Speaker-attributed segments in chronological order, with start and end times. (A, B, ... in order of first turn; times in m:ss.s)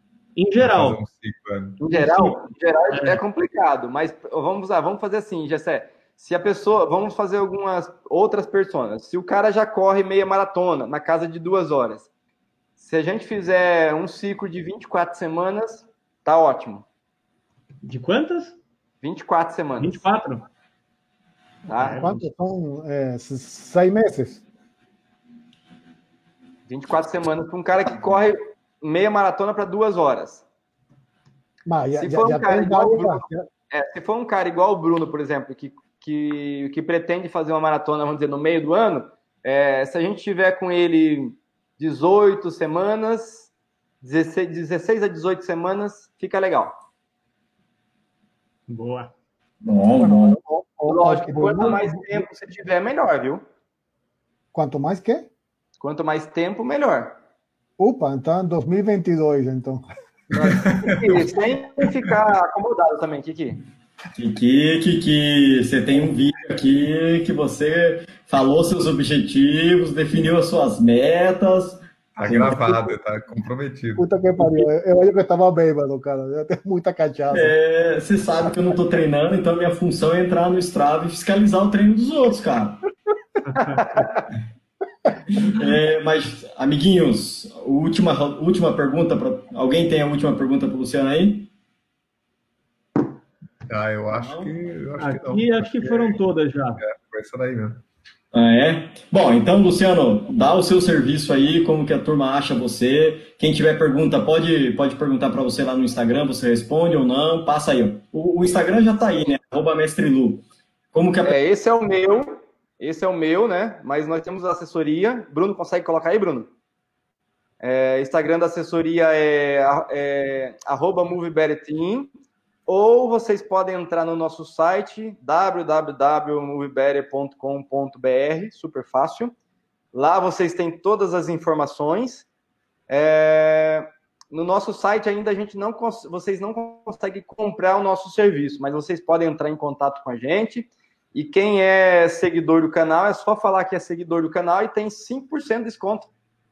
0:00.4-0:01.0 A
0:00.6-0:01.8 B
0:01.8-0:12.1 C
0:01.9-0:02.3 A
0:02.9-0:03.2 A
0:12.8-0:16.8 C
0:17.8-0:18.6 A
0:19.0-0:20.0 C
0:19.8-0:20.4 A
0:21.7-0:22.0 C
0:21.8-0:22.2 A
0:21.9-0:24.4 D
0:26.7-0:30.4 C
0:31.7-0:33.4 D
0:32.0-0:43.5 C
0:44.0-0:46.7 C
0:48.7-0:49.1 A
0:49.6-0:50.4 E
0:50.0-0:52.2 D
0:50.9-0:53.4 C
0:54.5-0:55.3 D
0:55.8-0:57.2 C
0:57.8-0:59.9 D
1:00.3-1:03.6 C
1:00.4-1:01.3 B
1:04.2-1:12.8 E
1:12.2-1:14.1 B
1:14.0-1:17.6 D
1:17.3-1:22.8 E
1:23.5-1:23.8 A
1:25.3-1:31.5 E
1:33.7-1:36.2 B
1:34.1-1:34.5 E
1:35.0-1:36.8 A
1:36.8-1:37.8 B
1:38.3-1:51.4 E
1:51.2-1:56.5 C
1:57.6-2:02.1 C
2:02.7-2:09.3 C
2:09.9-2:12.3 C
2:12.9-2:26.1 C